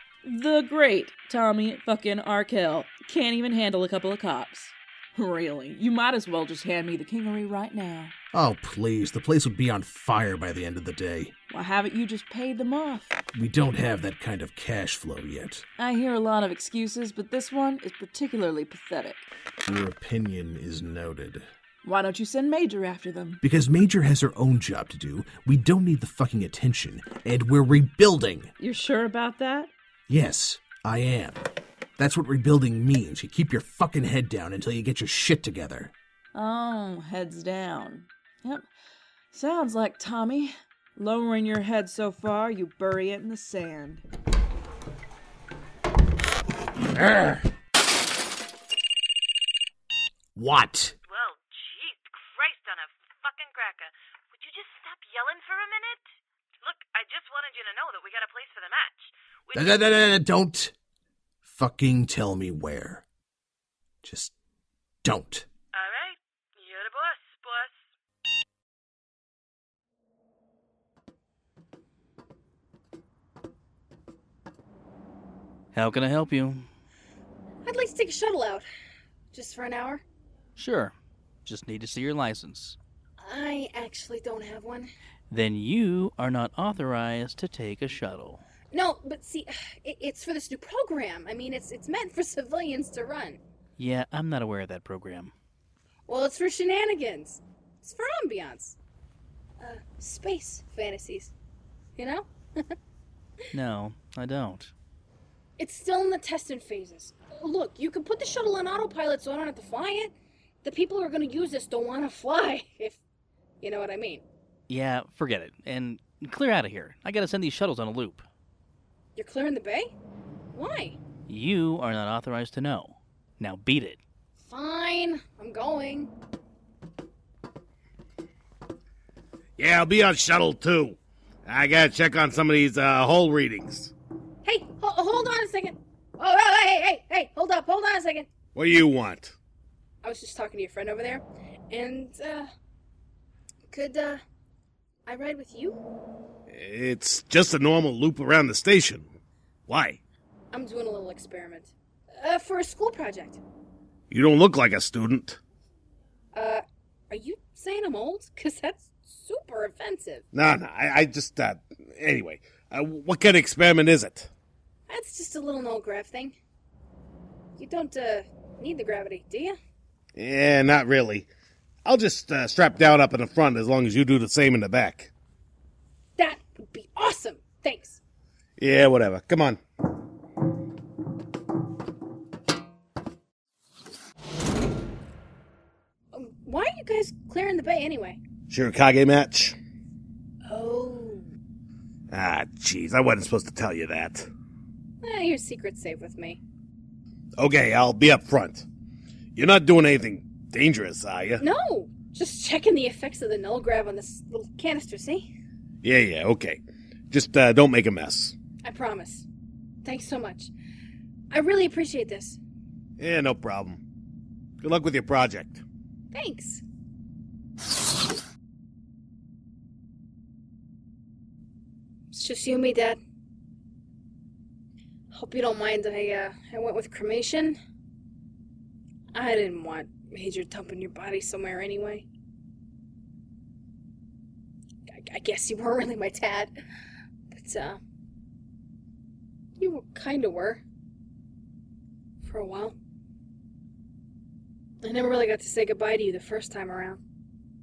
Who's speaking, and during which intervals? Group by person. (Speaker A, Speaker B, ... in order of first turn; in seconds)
Speaker A: 0.2-8.1, 11.5-13.2, 15.8-19.3, 21.8-23.4, 28.6-29.7, 36.3-38.6, 39.3-44.0
Speaker B: 8.3-11.3, 13.3-15.6, 19.7-21.5, 23.4-28.5, 30.1-31.4, 32.0-35.9, 46.9-47.4, 50.4-51.0, 59.5-60.7, 61.4-63.0, 64.0-64.3, 65.0-65.5
Speaker C: 51.1-56.0, 56.6-59.9, 65.7-67.8
Speaker D: 75.7-76.7, 80.6-80.9, 81.4-82.8, 85.3-88.4, 93.8-95.3, 103.5-104.7, 114.7-118.2, 121.3-124.0
Speaker E: 77.6-78.7, 79.3-80.0, 83.2-84.9, 88.7-93.4, 96.1-98.8, 99.6-101.3, 102.0-102.3, 105.6-110.1, 110.6-113.0, 113.6-114.2, 119.2-119.9, 120.5-121.0, 124.4-126.1, 134.4-138.3, 140.0-142.5, 143.7-144.2, 145.1-145.8, 150.5-153.4, 156.3-160.2, 164.9-166.3, 167.6-169.6, 176.2-178.0, 186.1-188.2, 190.4-191.3, 195.0-196.4, 201.4-205.3, 208.6-209.3, 209.8-210.5, 211.3-212.4, 216.1-216.6, 222.1-223.0, 225.1-227.6, 229.1-232.1, 234.9-236.5, 237.3-237.8, 239.6-240.6, 242.2-242.8, 244.8-247.0
Speaker F: 129.6-133.9, 138.5-139.3, 146.5-149.2, 149.7-150.0, 154.1-155.4, 160.3-164.3, 170.2-171.3, 171.8-175.1, 178.6-179.6, 188.5-189.6, 192.1-194.3, 197.4-198.7, 199.3-201.4, 205.8-208.3, 213.0-213.8, 214.6-215.6